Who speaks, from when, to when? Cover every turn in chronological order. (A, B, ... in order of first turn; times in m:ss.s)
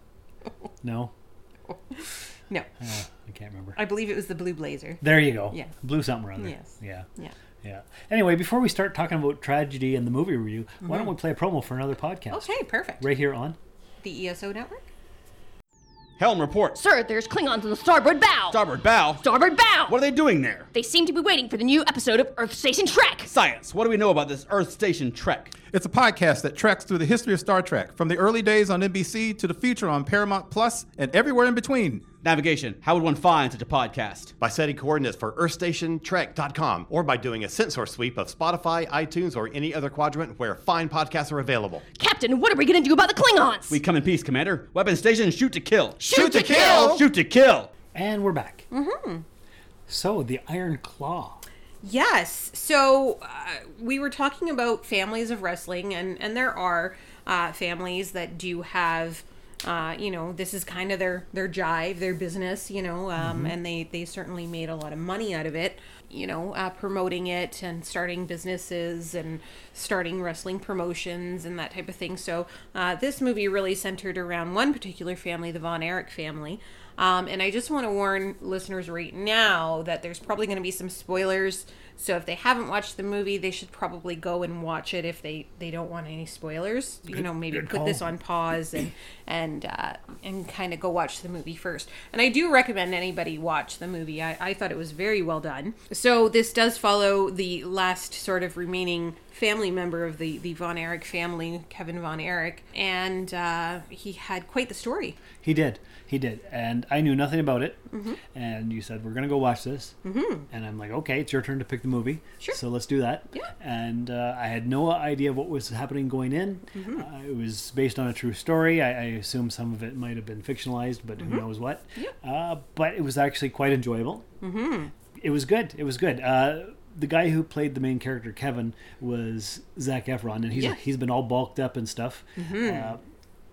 0:00.8-0:01.1 A
0:01.9-0:02.7 B
0:02.8-0:03.8 A
0:03.8-0:05.7 B
0:05.0-0:07.1 A
0:06.4-0:07.3 B
0:07.6-0:13.6 A
0:10.8-0:11.1 B
0:12.3-0:13.0 B
0:14.0-0:14.8 B
0:16.2-0:16.8 C
0:16.8-0:18.6 D
0:18.5-0:19.2 C
0:19.2-0:20.0 D
0:19.9-0:20.7 C
0:20.7-0:23.3 D
0:23.3-0:25.5 C
0:25.7-0:32.0 E
0:32.2-0:34.3 C
0:34.4-0:41.8 F
0:42.0-0:43.8 D
0:43.7-0:47.7 C
0:46.0-0:47.0 F
0:46.0-0:47.0 D
0:47.9-0:48.6 A
0:48.7-0:49.2 B
0:49.9-0:51.4 A
0:51.8-1:45.2 B
1:03.2-1:03.6 A
1:27.1-1:28.1 A
1:45.4-1:47.8 A
1:47.9-1:48.2 B
1:48.3-1:49.9 A
1:50.0-1:50.5 B
1:50.5-2:04.2 A
1:56.7-1:57.0 B
2:01.2-2:02.1 B
2:04.4-2:04.9 B
2:05.1-2:13.0 A
2:10.5-2:10.8 B
2:12.4-2:13.0 B